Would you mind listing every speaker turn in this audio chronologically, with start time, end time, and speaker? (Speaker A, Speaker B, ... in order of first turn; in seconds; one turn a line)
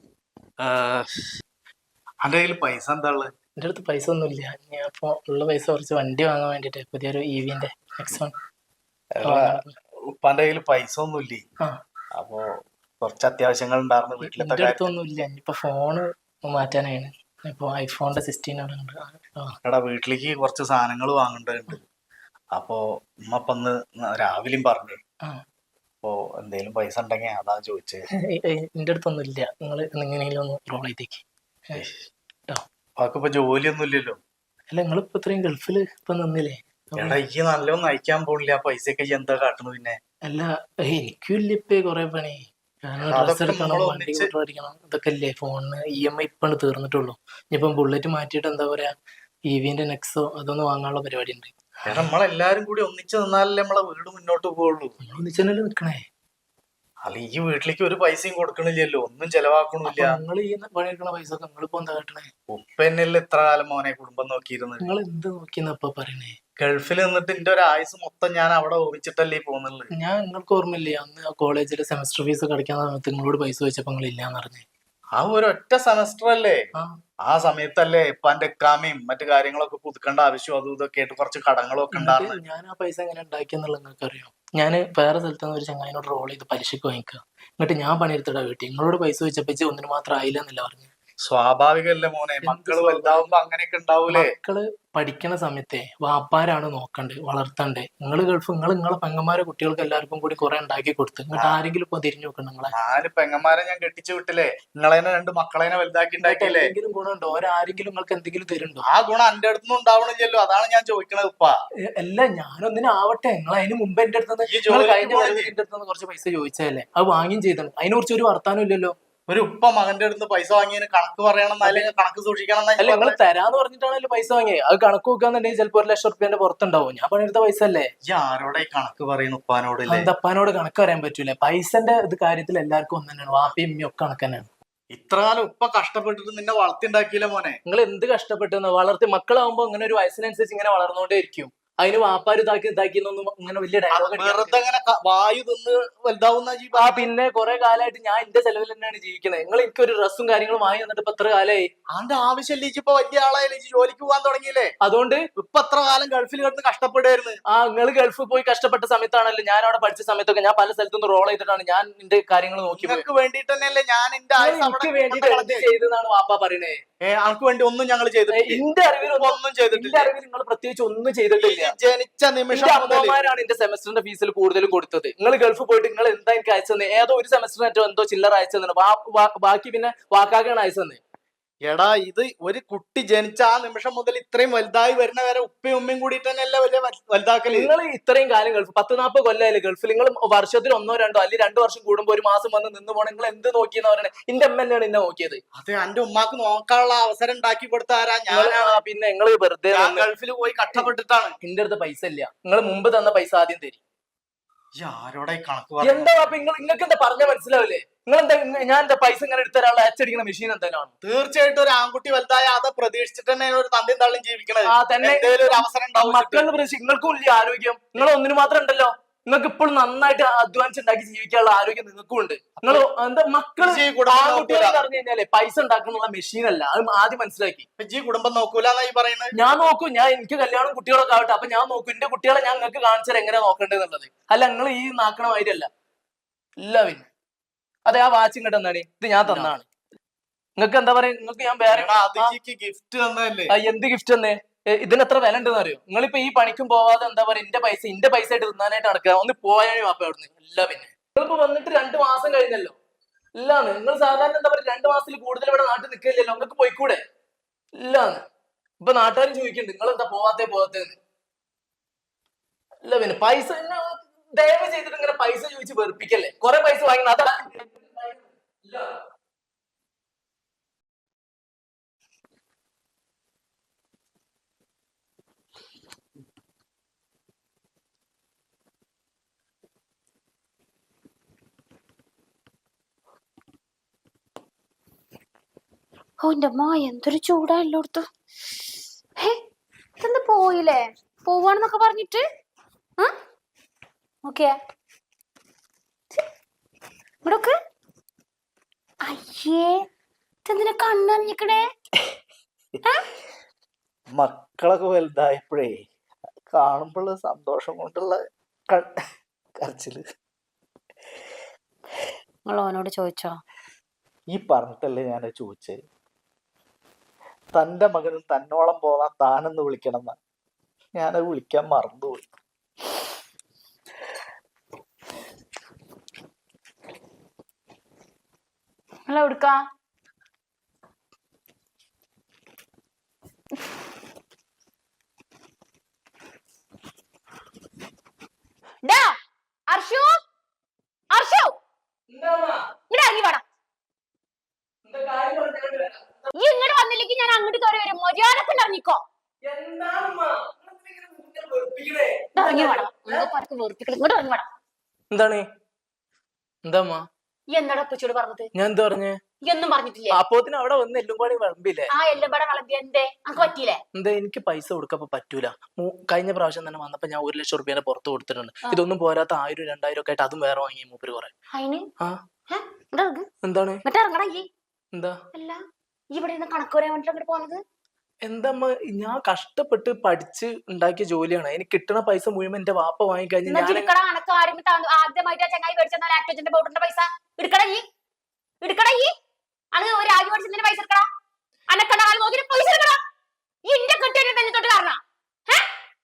Speaker A: 0.6-1.2
Speaker A: 2.2-3.3
Speaker B: 3.6-8.3
Speaker A: 9.1-11.4
Speaker B: 9.2-9.7
Speaker A: 12.1-12.4
Speaker A: 13.0-14.9
Speaker B: 14.2-19.6
Speaker A: 19.6-21.8
Speaker A: 22.5-25.0
Speaker A: 26.0-28.0
Speaker B: 28.3-31.8
Speaker A: 31.8-32.0
Speaker A: 33.0-34.2
Speaker B: 34.7-37.2
Speaker A: 37.0-40.0
Speaker B: 40.3-48.9
Speaker A: 43.1-44.3
Speaker B: 49.5-52.1
Speaker A: 51.9-55.0
Speaker B: 55.0-56.0
Speaker A: 57.0-60.2
Speaker B: 59.8-62.3
Speaker A: 62.5-64.8
Speaker B: 64.8-66.3
Speaker A: 66.6-69.9
Speaker B: 69.9-74.6
Speaker A: 75.2-76.6
Speaker A: 77.2-82.4
Speaker B: 81.9-90.9
Speaker A: 91.2-94.3
Speaker B: 92.4-93.3
Speaker B: 94.1-102.7
Speaker A: 102.7-106.7
Speaker B: 106.2-108.8
Speaker A: 108.9-111.5
Speaker B: 112.0-118.9
Speaker A: 114.5-115.5
Speaker A: 119.3-123.2
Speaker B: 121.6-121.9
Speaker B: 122.8-127.9
Speaker A: 128.1-130.1
Speaker B: 129.9-134.5
Speaker A: 134.9-137.6
Speaker B: 137.7-144.6
Speaker A: 143.9-147.1
Speaker B: 146.7-151.7
Speaker A: 151.9-154.7
Speaker B: 154.8-155.2
Speaker A: 155.3-157.4
Speaker B: 157.5-163.0
Speaker A: 162.7-165.7
Speaker B: 164.4-166.8
Speaker A: 167.0-170.1
Speaker B: 168.3-171.7
Speaker A: 171.4-173.2
Speaker B: 172.5-181.0
Speaker A: 181.6-187.7
Speaker B: 187.5-195.4
Speaker A: 195.6-198.8
Speaker B: 198.3-200.1
Speaker A: 199.7-201.3
Speaker B: 201.4-203.8
Speaker A: 204.8-206.3
Speaker B: 205.8-210.9
Speaker A: 211.0-216.5
Speaker B: 214.7-227.6
Speaker A: 223.6-224.8
Speaker A: 227.8-229.3
Speaker B: 229.3-235.7
Speaker B: 236.6-237.1
Speaker B: 237.8-239.6
Speaker A: 239.2-239.5
Speaker B: 240.6-242.3
Speaker A: 241.6-243.6
Speaker B: 243.5-252.8
Speaker B: 253.4-257.0
Speaker B: 257.8-258.2
Speaker B: 258.8-260.9
Speaker B: 262.8-268.9
Speaker C: 286.2-288.1
Speaker C: 290.0-292.2
Speaker C: 294.2-294.6
Speaker C: 297.2-297.5
Speaker C: 299.0-299.8
Speaker C: 300.4-301.6
Speaker A: 304.1-305.8
Speaker A: 306.5-308.9
Speaker A: 309.6-310.0
Speaker C: 312.4-313.4
Speaker A: 314.3-315.8
Speaker A: 317.5-320.2
Speaker A: 321.0-322.2
Speaker C: 329.1-329.6
Speaker C: 338.8-339.1
Speaker C: 339.7-340.1
Speaker C: 341.1-341.5
Speaker B: 342.1-342.6
Speaker C: 342.9-343.4
Speaker B: 344.8-346.2
Speaker C: 346.3-349.0
Speaker B: 349.4-353.3
Speaker C: 352.3-354.4
Speaker B: 355.1-355.4
Speaker B: 356.6-357.0
Speaker C: 357.5-358.5
Speaker B: 358.5-359.2
Speaker C: 359.4-360.2
Speaker B: 360.1-361.9
Speaker C: 361.9-363.8
Speaker B: 363.4-371.3
Speaker C: 371.5-371.8
Speaker C: 372.5-373.2
Speaker B: 373.4-373.8
Speaker C: 373.8-374.5
Speaker C: 375.3-375.6
Speaker C: 376.1-377.6
Speaker B: 378.2-383.9
Speaker C: 383.4-387.8
Speaker C: 388.6-389.1
Speaker C: 389.7-391.1
Speaker C: 391.7-393.0
Speaker C: 393.6-395.6